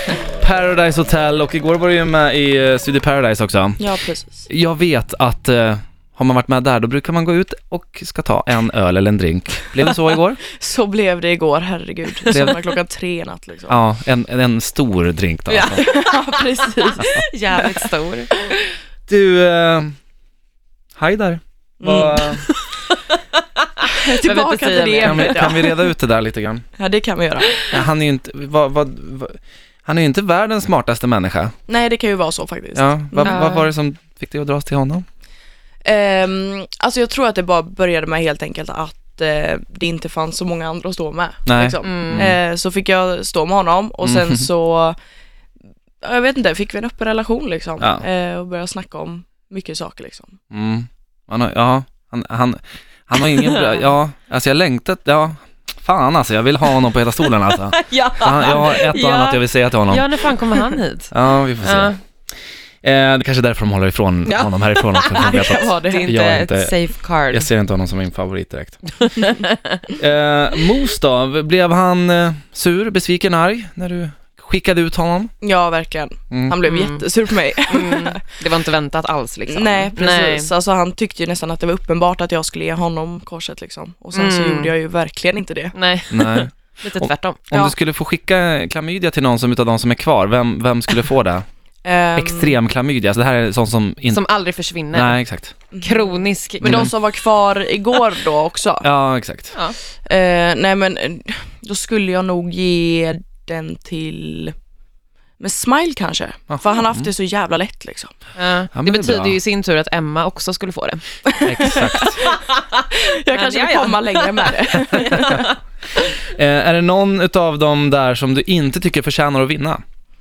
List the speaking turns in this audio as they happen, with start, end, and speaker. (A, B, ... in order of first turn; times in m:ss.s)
0:00.4-0:03.8 A
0:03.8-0:04.5 B
0:04.5-0:10.4 A
0:10.6-0:13.8 B
0:13.7-0:15.8 A
0:15.5-0:18.3 C
0:15.7-0:18.6 B
0:19.1-0:20.0 A
0:21.0-0:22.4 A
0:21.8-0:22.6 B
0:22.9-0:25.5 C
0:23.9-0:25.9 B
0:25.0-0:26.6 A
0:26.8-0:27.8 B
0:27.7-0:31.5 A
0:31.7-0:33.6 B
0:32.8-0:35.0 A
0:33.2-0:33.7 C
0:35.8-0:45.0 B
0:41.5-0:42.4 A
0:41.8-0:42.3 C
0:44.0-0:44.5 A
0:46.0-0:50.4 B
0:50.5-1:00.1 A
0:53.4-0:53.8 C
0:57.7-1:02.0 C
1:01.1-1:02.0 A
1:02.8-1:06.7 A
1:04.3-1:07.5 C
1:05.2-1:06.1 B
1:07.3-1:08.9 A
1:09.1-1:09.8 C
1:09.9-1:15.3 A
1:15.4-1:18.2 B
1:16.3-1:16.6 A
1:16.6-1:17.0 C
1:17.6-1:20.5 C
1:19.5-1:25.7 B
1:24.1-1:24.7 C
1:25.7-1:27.4 C
1:26.1-1:31.4 A
1:31.8-1:32.6 B
1:32.2-1:34.2 A
1:34.1-1:35.2 C
1:34.9-1:35.6 A
1:35.7-1:38.9 B
1:35.8-1:36.9 C
1:36.6-1:36.9 A
1:38.8-1:39.6 A
1:40.0-1:44.5 B
1:45.4-1:48.1 B
1:46.5-1:47.1 A
1:48.4-1:51.0 C
1:48.7-1:49.4 A
1:51.3-1:52.4 B
1:51.4-1:52.2 A
1:51.7-1:55.6 C
1:53.0-1:55.4 B
1:56.2-1:59.8 A